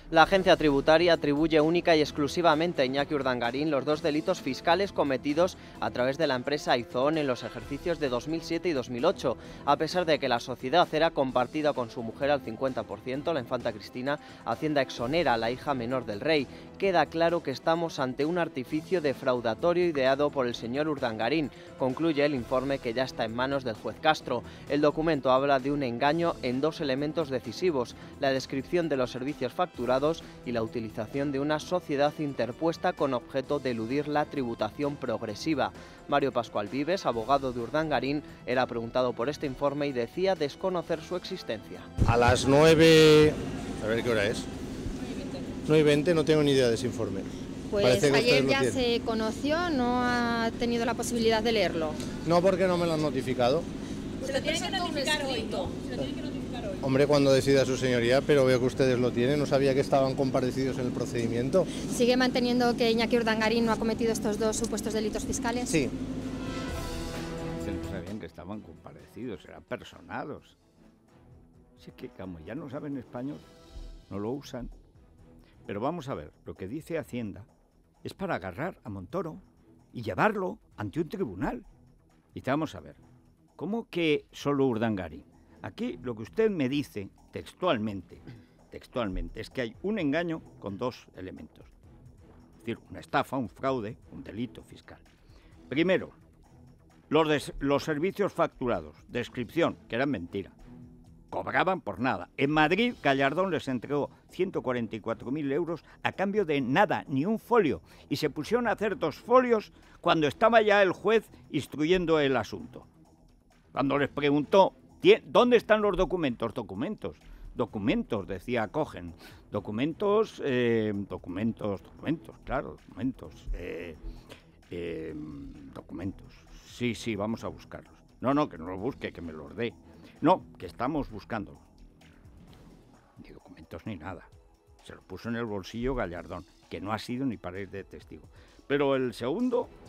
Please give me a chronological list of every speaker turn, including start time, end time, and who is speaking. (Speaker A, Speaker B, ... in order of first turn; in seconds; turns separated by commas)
Speaker A: 0.1-41.9, Speaker B: 42.0-44.5, Speaker B: 45.7-47.3, Speaker C: 47.7-52.0, Speaker B: 47.8-48.8, Speaker B: 52.2-53.7, Speaker C: 54.2-55.8, Speaker B: 56.8-61.7, Speaker C: 61.8-65.8, Speaker B: 65.7-65.9, Speaker D: 67.6-70.6, Speaker D: 71.8-73.5, Speaker D: 74.1-74.7, Speaker D: 75.7-77.5, Speaker D: 78.0-81.7, Speaker D: 82.3-83.0, Speaker D: 83.6-91.7, Speaker D: 92.6-95.0, Speaker D: 95.7-96.2, Speaker D: 97.1-100.5, Speaker D: 101.3-112.9, Speaker D: 113.7-124.0, Speaker D: 124.7-131.6, Speaker D: 133.2-134.3, Speaker D: 134.8-139.7